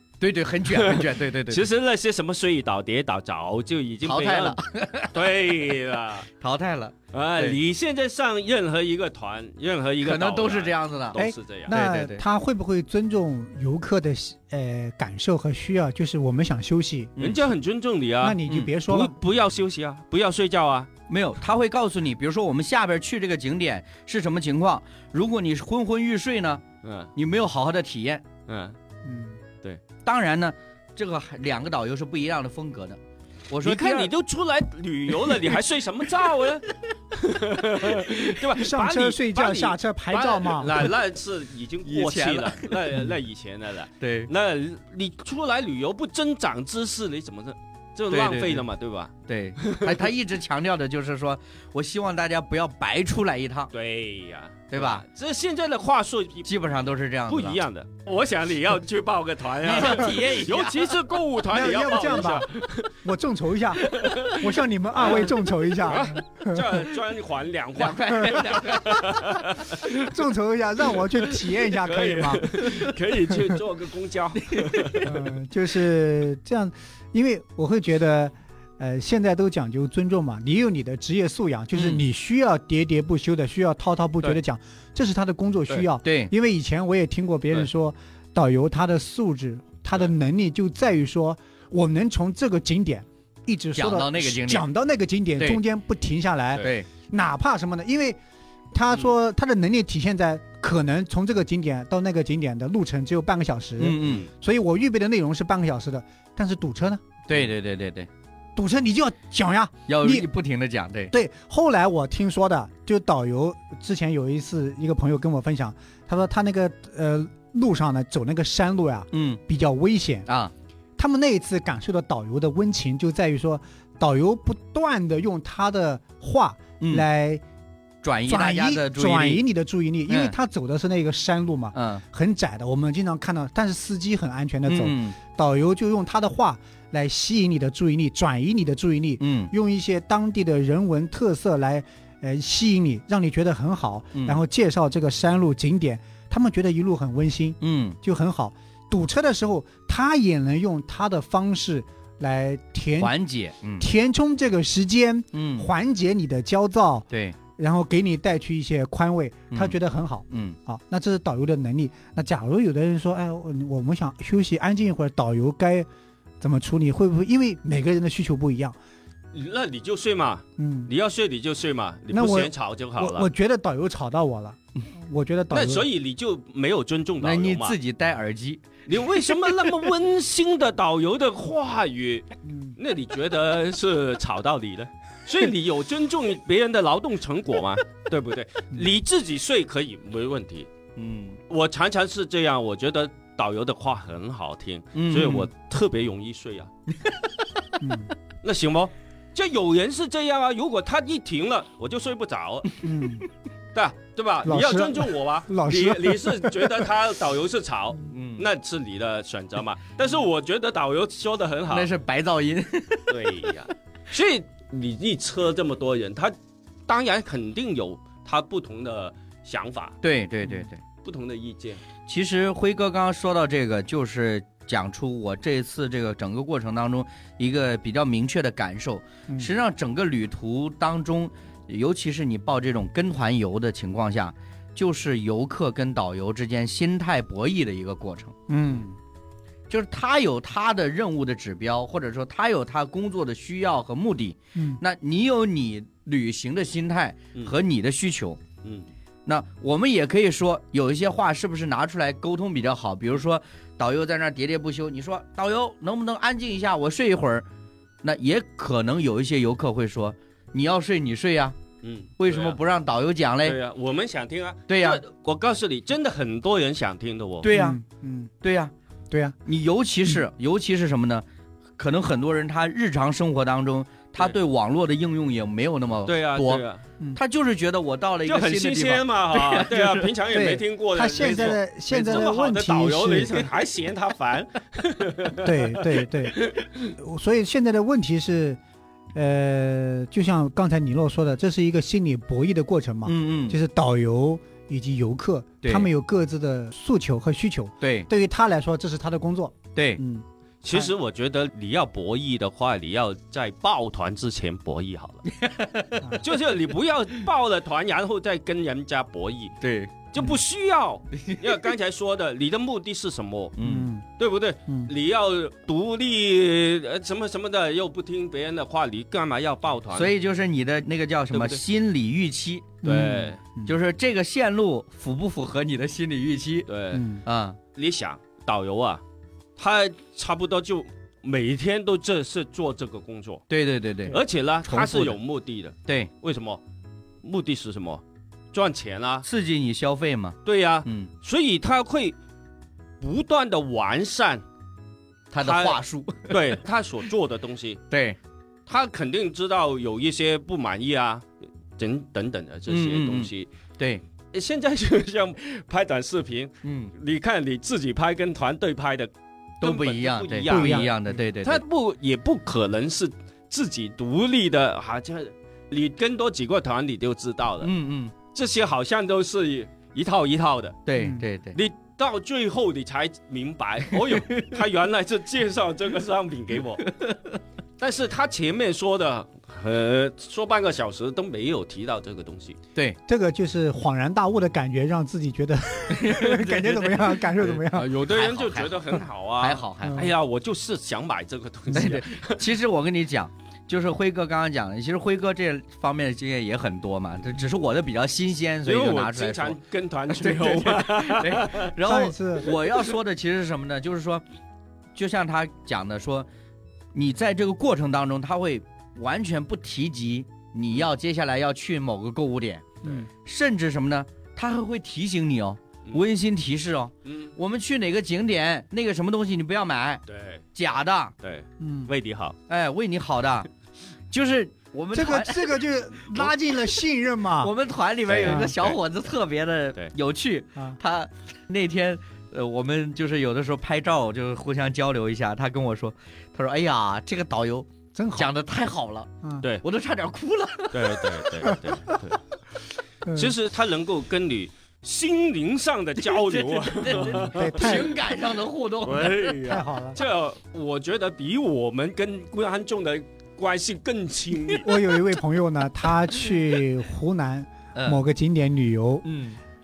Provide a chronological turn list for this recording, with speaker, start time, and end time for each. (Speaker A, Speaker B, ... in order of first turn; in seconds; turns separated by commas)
Speaker A: 0.2-1.7, Speaker B: 0.7-4.6, Speaker A: 4.0-5.3, Speaker B: 5.1-6.3, Speaker A: 6.3-7.6, Speaker B: 7.1-11.7, Speaker A: 10.0-12.2, Speaker C: 11.1-17.1, Speaker A: 17.2-17.4, Speaker B: 17.2-20.9, Speaker C: 18.2-19.1, Speaker A: 21.1-26.6, Speaker B: 26.8-27.1, Speaker A: 27.1-28.3, Speaker B: 28.5-28.8, Speaker C: 29.0-29.4, Speaker A: 30.0-34.1, Speaker B: 33.6-50.0, Speaker A: 35.1-35.6, Speaker A: 37.8-38.3, Speaker C: 38.5-40.9, Speaker A: 41.8-42.9, Speaker A: 44.0-44.3, Speaker A: 48.1-48.6, Speaker A: 49.3-53.7, Speaker B: 53.7-56.5, Speaker A: 54.7-55.0, Speaker A: 56.4-57.6, Speaker B: 57.3-62.9, Speaker A: 59.6-61.0, Speaker C: 61.5-62.5, Speaker C: 63.0-66.6, Speaker B: 63.9-64.5, Speaker B: 65.0-65.3, Speaker B: 65.8-69.9, Speaker A: 67.8-69.4, Speaker C: 69.8-72.4, Speaker B: 71.6-75.1, Speaker A: 72.6-72.9, Speaker A: 74.4-75.2, Speaker C: 75.0-98.2, Speaker A: 86.0-86.3, Speaker A: 93.7-94.7, Speaker A: 96.6-96.9, Speaker C: 98.7-107.0, Speaker A: 103.8-104.3, Speaker A: 107.3-108.1, Speaker C: 108.5-110.3, Speaker A: 109.9-111.1, Speaker C: 111.1-120.3, Speaker A: 119.1-119.4, Speaker A: 120.2-120.5, Speaker C: 121.0-127.4, Speaker A: 126.8-127.0, Speaker A: 128.0-129.4, Speaker C: 128.3-153.1, Speaker A: 130.1-130.3, Speaker A: 131.7-132.0, Speaker A: 134.7-135.2, Speaker A: 139.2-139.5, Speaker A: 144.1-144.4, Speaker A: 147.6-148.0, Speaker A: 153.0-153.9, Speaker C: 153.8-165.9, Speaker A: 155.3-155.7, Speaker A: 157.1-157.3, Speaker A: 160.3-160.6, Speaker C: 166.4-168.8, Speaker B: 169.3-173.3, Speaker C: 170.6-170.9, Speaker C: 172.1-175.9, Speaker B: 175.5-177.8, Speaker A: 177.2-179.5, Speaker B: 178.9-190.7, Speaker C: 182.4-182.8, Speaker A: 190.9-191.4, Speaker B: 191.5-196.7, Speaker A: 194.9-195.5, Speaker A: 196.9-197.6, Speaker C: 197.8-198.1, Speaker B: 198.4-202.7, Speaker C: 202.8-203.3, Speaker B: 203.7-211.9, Speaker C: 204.4-206.9, Speaker A: 208.1-208.5, Speaker A: 211.7-213.5, Speaker B: 213.1-216.3, Speaker B: 216.9-220.0, Speaker A: 220.0-220.8, Speaker B: 221.0-221.8, Speaker A: 222.1-238.3, Speaker C: 238.5-239.0, Speaker A: 239.7-248.4, Speaker C: 244.5-244.8, Speaker A: 249.2-257.4, Speaker A: 258.0-261.6, Speaker B: 261.8-262.6, Speaker A: 262.2-263.6, Speaker B: 263.4-267.5, Speaker A: 264.7-265.0, Speaker A: 267.4-267.8, Speaker C: 267.5-268.3, Speaker A: 268.4-268.7, Speaker C: 269.1-269.4, Speaker A: 269.4-271.2, Speaker A: 271.8-276.6, Speaker B: 276.1-276.8, Speaker A: 277.1-280.1, Speaker B: 278.2-286.9, Speaker C: 280.3-283.5, Speaker A: 281.2-281.5, Speaker C: 285.4-286.4, Speaker C: 287.0-288.6, Speaker C: 289.1-300.9, Speaker A: 293.0-293.6, Speaker A: 295.6-295.9, Speaker A: 297.8-298.1, Speaker A: 299.7-300.0, Speaker B: 300.6-305.2, Speaker A: 305.3-306.2, Speaker B: 306.2-309.6, Speaker A: 309.6-309.9, Speaker B: 310.1-313.6, Speaker A: 311.2-311.6, Speaker A: 313.6-313.9, Speaker C: 313.6-314.0, Speaker B: 314.1-320.1, Speaker A: 319.9-326.7, Speaker B: 321.3-321.6, Speaker C: 322.8-323.7, Speaker B: 322.9-323.4, Speaker B: 326.7-327.0, Speaker C: 326.9-327.2, Speaker A: 327.2-327.6, Speaker B: 327.7-329.0, Speaker B: 329.6-333.4, Speaker A: 333.5-335.2, Speaker B: 334.1-336.6, Speaker B: 337.2-338.0, Speaker B: 338.5-339.2, Speaker A: 339.2-341.1, Speaker B: 340.4-342.1, Speaker B: 343.0-344.4, Speaker A: 345.3-346.4, Speaker B: 345.4-347.8, Speaker A: 347.9-348.2, Speaker B: 348.7-351.2, Speaker B: 351.8-353.5, Speaker A: 352.7-354.0, Speaker B: 354.3-367.7, Speaker A: 356.6-356.9, Speaker A: 359.6-361.6, Speaker C: 360.5-360.9, Speaker A: 367.6-368.1, Speaker B: 368.3-370.9, Speaker A: 370.9-371.6, Speaker C: 371.0-371.2, Speaker B: 371.5-376.9, Speaker A: 373.9-374.3, Speaker A: 376.9-377.4, Speaker B: 377.8-382.6, Speaker C: 383.1-387.9, Speaker A: 385.9-386.5, Speaker B: 386.6-392.5, Speaker A: 387.8-390.1, Speaker C: 389.8-390.1, Speaker A: 391.7-399.6, Speaker B: 398.6-401.7, Speaker A: 400.1-404.2, Speaker C: 401.8-402.5, Speaker A: 404.9-406.3, Speaker A: 406.9-420.0, Speaker B: 417.1-417.3, Speaker B: 420.1-420.5, Speaker A: 420.5-421.1, Speaker B: 421.2-422.4, Speaker C: 421.6-421.9, Speaker A: 422.5-423.5, Speaker A: 424.1-426.6, Speaker C: 424.9-427.5, Speaker A: 427.4-439.1, Speaker C: 428.2-428.5, Speaker B: 428.2-428.8, Speaker C: 437.9-438.3, Speaker A: 439.6-441.5, Speaker B: 440.7-442.2, Speaker C: 441.4-441.9, Speaker C: 443.0-443.3, Speaker B: 443.1-447.8, Speaker A: 446.0-449.4, Speaker C: 447.0-447.9, Speaker B: 448.8-454.7, Speaker C: 449.4-450.0, Speaker C: 454.6-459.1, Speaker A: 457.7-458.0, Speaker A: 459.0-459.4